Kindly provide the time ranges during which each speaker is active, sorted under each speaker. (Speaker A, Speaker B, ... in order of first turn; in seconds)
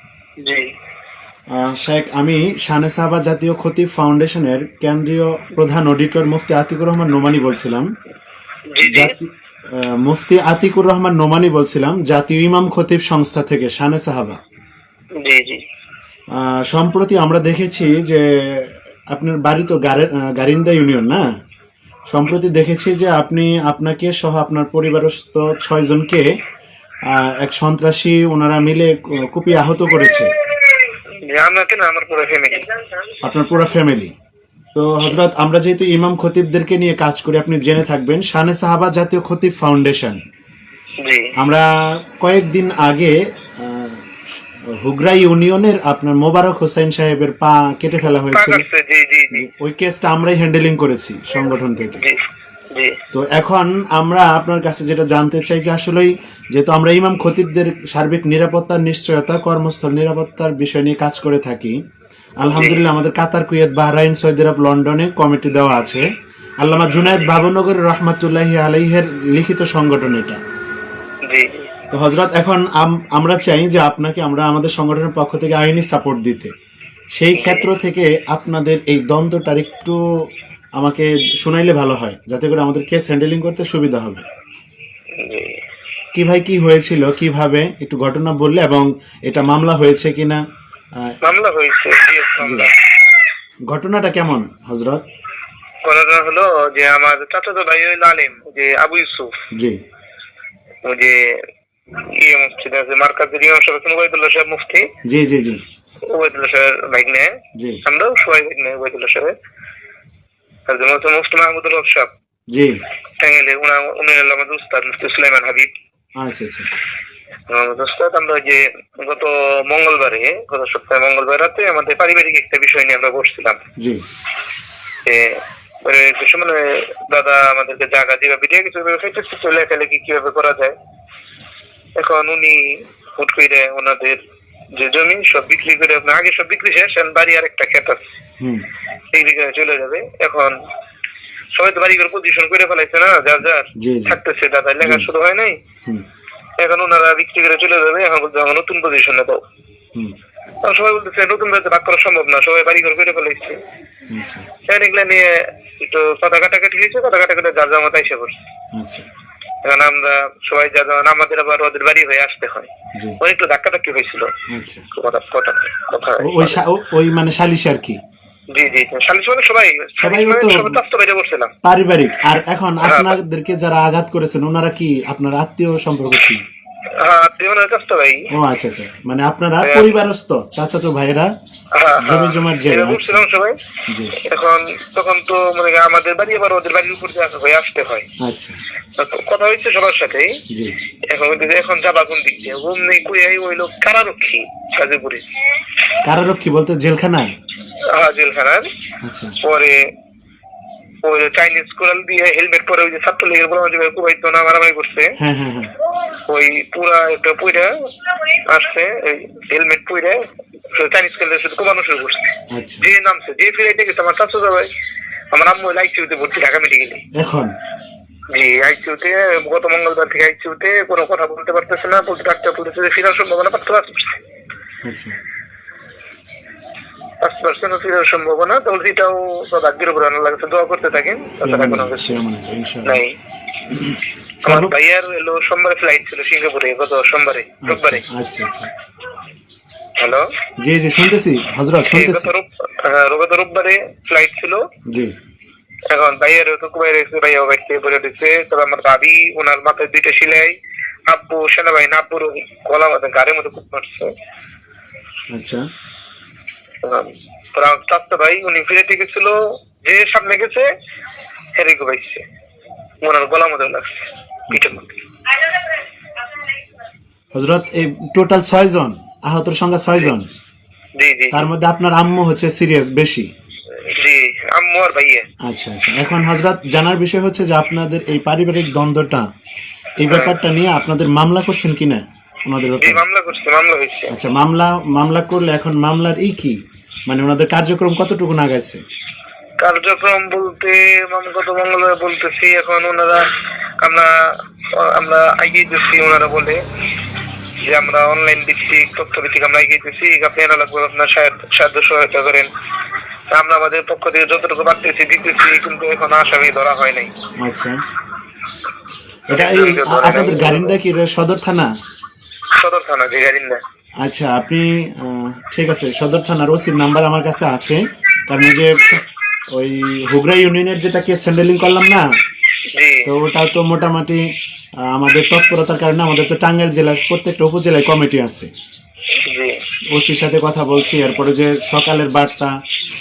Speaker A: 1.5-7.9, 8.8-14.4, 16.4-21.2, 22.1-26.3, 27.1-30.3, 33.2-34.1, 34.8-40.2, 41.4-44.1, 44.7-48.6, 49.3-52.0, 53.1-61.8, 62.4-66.0, 66.6-70.4, 71.9-76.5, 77.2-80.0, 80.8-84.2, 86.1-90.4, 92.4-92.7, 93.7-95.0, 99.5-99.8, 105.0-105.6, 107.5-107.8, 112.5-112.8, 116.2-116.7, 123.8-124.0, 138.4-138.7, 143.8-144.2, 144.8-145.1, 154.1-154.5, 158.8-159.1, 164.5-164.9, 166.2-168.0, 170.0-170.8, 171.6-176.4, 178.3-181.3, 182.0-183.3, 183.9-184.2, 188.2-188.6, 190.5-190.8, 196.0-197.3, 199.0-199.4, 205.2-205.7, 212.5-212.9, 217.1-217.5, 224.8-225.2, 231.4-233.0, 233.7-234.7, 237.6-238.7, 240.6-242.3, 244.9-245.1, 255.3-255.7, 264.5-264.9, 267.4-270.3, 271.3-273.3, 275.4-279.3, 280.0-283.0, 284.1-286.6, 287.1-288.8, 307.4-307.8, 309.3-311.7, 314.0-322.1, 323.1-324.2, 324.8-328.5, 329.9-332.5
Speaker B: 8.7-9.2, 15.2-15.6, 30.9-32.8, 41.0-41.3, 48.3-49.5, 51.9-53.0, 62.5-62.8, 71.3-71.7, 77.3-77.7, 85.2-85.6, 91.2-92.8, 95.8-99.4, 100.8-104.9, 106.1-109.3, 110.7-112.1, 113.2-115.7, 117.5-123.6, 125.0-130.8, 132.0-134.2, 134.8-138.0, 139.1-140.6, 141.6-145.6, 146.6-149.4, 150.6-153.6, 154.7-158.4, 159.6-164.3, 164.9-166.6, 168.5-171.5, 172.8-173.2, 177.0-178.3, 179.6-180.0, 181.7-183.6, 184.2-188.1, 189.0-190.4, 191.1-195.2, 197.9-198.7, 199.4-199.9, 201.0-205.2, 206.3-214.7, 215.3-217.0, 218.3-224.2, 227.2-232.2, 232.8-233.2, 234.4-238.0, 240.0-240.3, 241.9-244.7, 245.9-250.6, 251.1-254.1, 256.8-260.7, 261.6-262.2, 263.0-265.7, 271.0-271.5, 273.7-275.3, 280.1-280.4, 282.8-284.1, 289.6-296.6, 297.6-302.5, 303.3-307.1, 309.3-310.8, 312.6-313.6, 322.7-323.1, 329.3-329.6